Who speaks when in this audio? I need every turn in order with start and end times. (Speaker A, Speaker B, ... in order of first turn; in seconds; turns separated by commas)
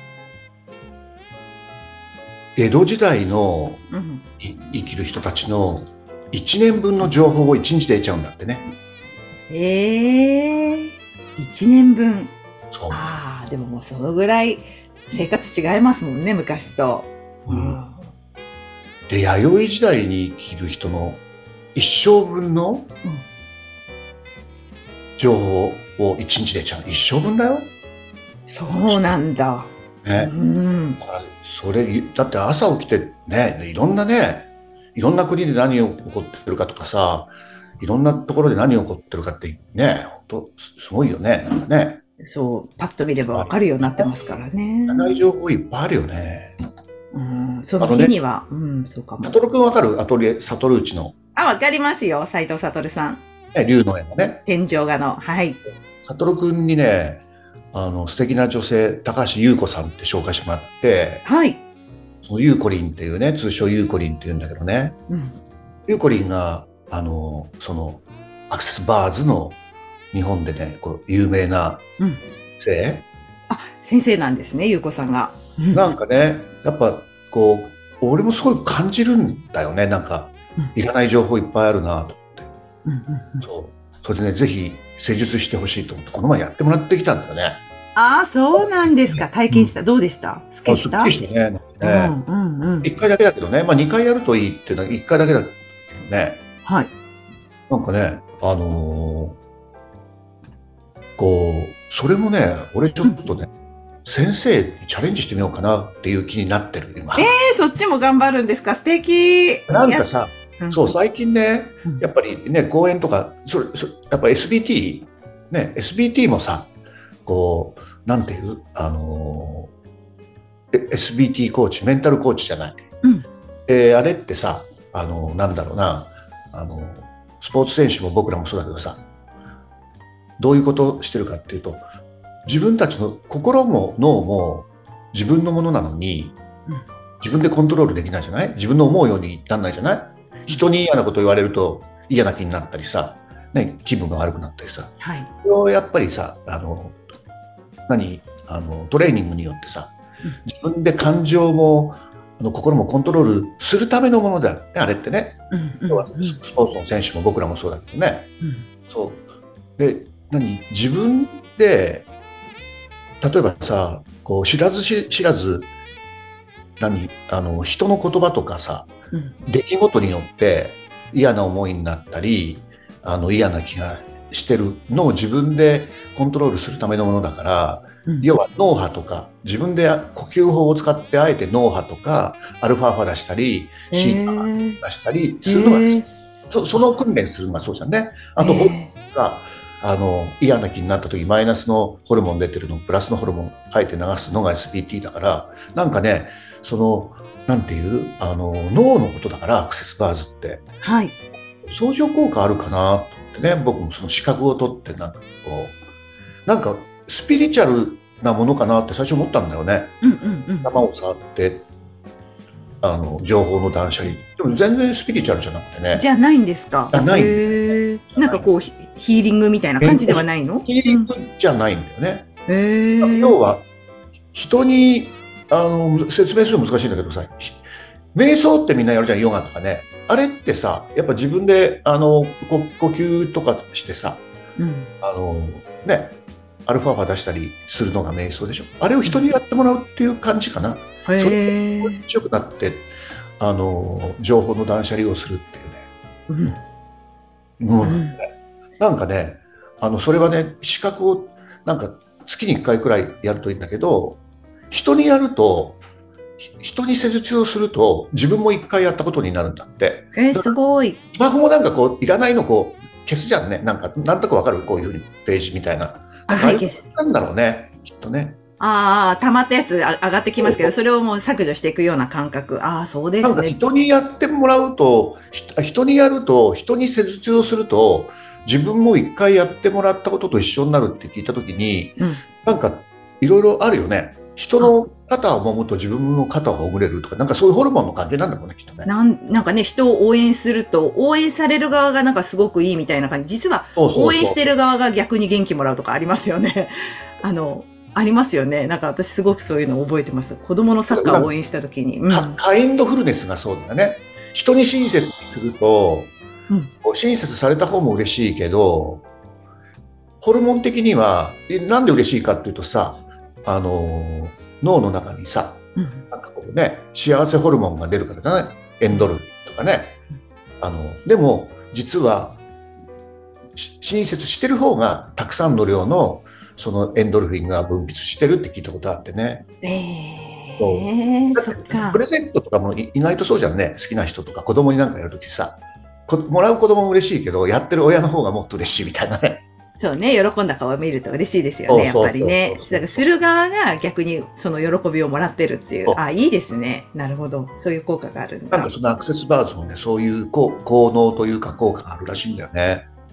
Speaker A: 2.5-3.8, Speaker B: 3.9-4.2, Speaker A: 4.4-8.7, Speaker B: 9.5-12.3, Speaker A: 12.7-13.1, Speaker B: 12.9-18.1, Speaker A: 17.5-17.8, Speaker A: 19.1-21.2, Speaker A: 21.7-22.9, Speaker A: 25.2-27.7, Speaker B: 28.5-31.0, Speaker A: 28.9-29.1, Speaker A: 30.0-30.3, Speaker A: 31.0-42.0, Speaker B: 42.2-45.2, Speaker A: 43.3-44.1, Speaker A: 44.9-46.5, Speaker B: 47.1-49.4, Speaker A: 47.8-48.1, Speaker A: 49.2-51.1, Speaker B: 51.4-53.2, Speaker A: 53.5-54.4, Speaker B: 54.5-55.6, Speaker A: 56.0-61.2, Speaker B: 61.2-61.6, Speaker A: 62.2-65.0, Speaker B: 65.1-65.3, Speaker A: 65.9-69.6, Speaker A: 70.1-71.8, Speaker A: 72.6-73.0, Speaker B: 73.5-75.9, Speaker A: 75.7-82.5, Speaker B: 82.8-83.4, Speaker A: 83.4-87.6, Speaker B: 87.9-91.1, Speaker A: 88.5-89.7, Speaker A: 90.7-92.1, Speaker B: 91.8-92.9, Speaker A: 92.8-96.4, Speaker B: 96.6-96.9, Speaker A: 97.7-99.4, Speaker A: 101.2-103.5, Speaker A: 104.0-107.3, Speaker B: 107.2-110.0, Speaker A: 109.7-116.7, Speaker B: 110.6-110.9, Speaker A: 117.2-119.7, Speaker A: 120.7-122.8, Speaker A: 123.7-129.0, Speaker A: 130.4-131.8, Speaker A: 132.4-136.4, Speaker A: 137.2-147.0, Speaker B: 145.0-145.3, Speaker A: 147.9-149.9, Speaker A: 150.4-158.3, Speaker B: 155.5-156.4, Speaker B: 158.4-158.7, Speaker A: 158.9-159.2, Speaker A: 159.8-162.1, Speaker A: 163.2-165.7, Speaker A: 166.8-168.9, Speaker A: 169.4-185.9, Speaker B: 183.9-184.8, Speaker B: 185.4-186.1, Speaker A: 186.5-200.6, Speaker B: 188.4-188.9, Speaker B: 200.8-201.2, Speaker A: 201.6-205.8, Speaker A: 206.4-209.9, Speaker B: 210.0-210.7, Speaker A: 210.6-211.7, Speaker A: 212.8-216.1, Speaker B: 215.9-221.1, Speaker A: 216.9-218.5, Speaker A: 219.8-222.3, Speaker B: 222.5-223.4, Speaker A: 223.0-223.6, Speaker A: 224.3-234.2, Speaker B: 234.6-234.9, Speaker A: 235.0-245.8, Speaker B: 241.1-242.0, Speaker B: 246.3-246.6, Speaker A: 247.6-248.3, Speaker B: 247.8-248.2, Speaker A: 248.8-255.8, Speaker A: 256.4-260.5, Speaker B: 260.1-261.0, Speaker A: 261.1-268.4, Speaker B: 266.3-266.8, Speaker B: 268.6-273.6, Speaker A: 270.4-270.7, Speaker A: 273.2-288.9, Speaker B: 282.0-282.2, Speaker B: 288.9-302.4, Speaker A: 293.8-294.4, Speaker A: 300.9-301.4, Speaker A: 302.1-306.1, Speaker A: 306.8-309.0, Speaker A: 310.2-320.0, Speaker B: 315.8-316.0, Speaker A: 320.6-322.4, Speaker A: 323.5-329.4, Speaker B: 329.6-332.0, Speaker A: 330.6-339.4, Speaker B: 339.8-348.7, Speaker A: 341.7-343.1, Speaker A: 348.5-352.8